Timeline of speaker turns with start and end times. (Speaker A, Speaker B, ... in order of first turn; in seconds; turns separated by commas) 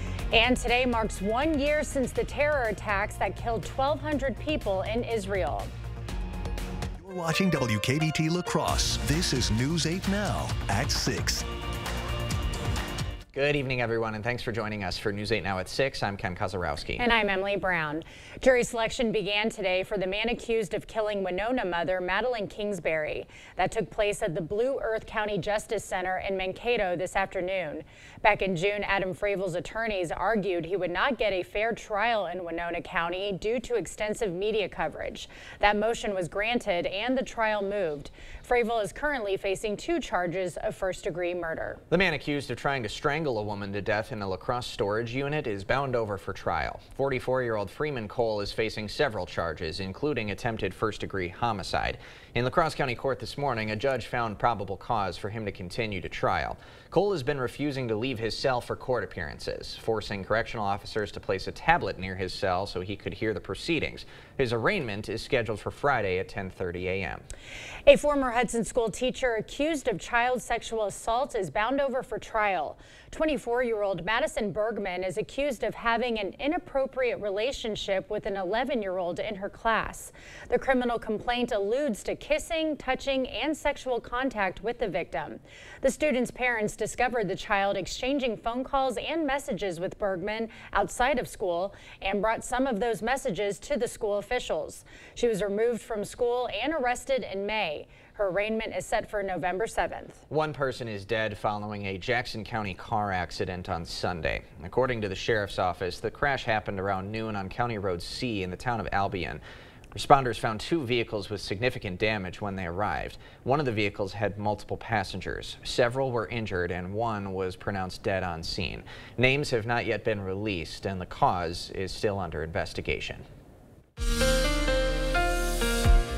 Speaker A: 0.3-5.7, Speaker B: 7.0-11.5, Speaker C: 13.3-17.1, Speaker A: 17.0-41.8, Speaker C: 41.9-67.2, Speaker A: 67.9-100.2, Speaker C: 100.3-109.4, Speaker C: 109.9-123.3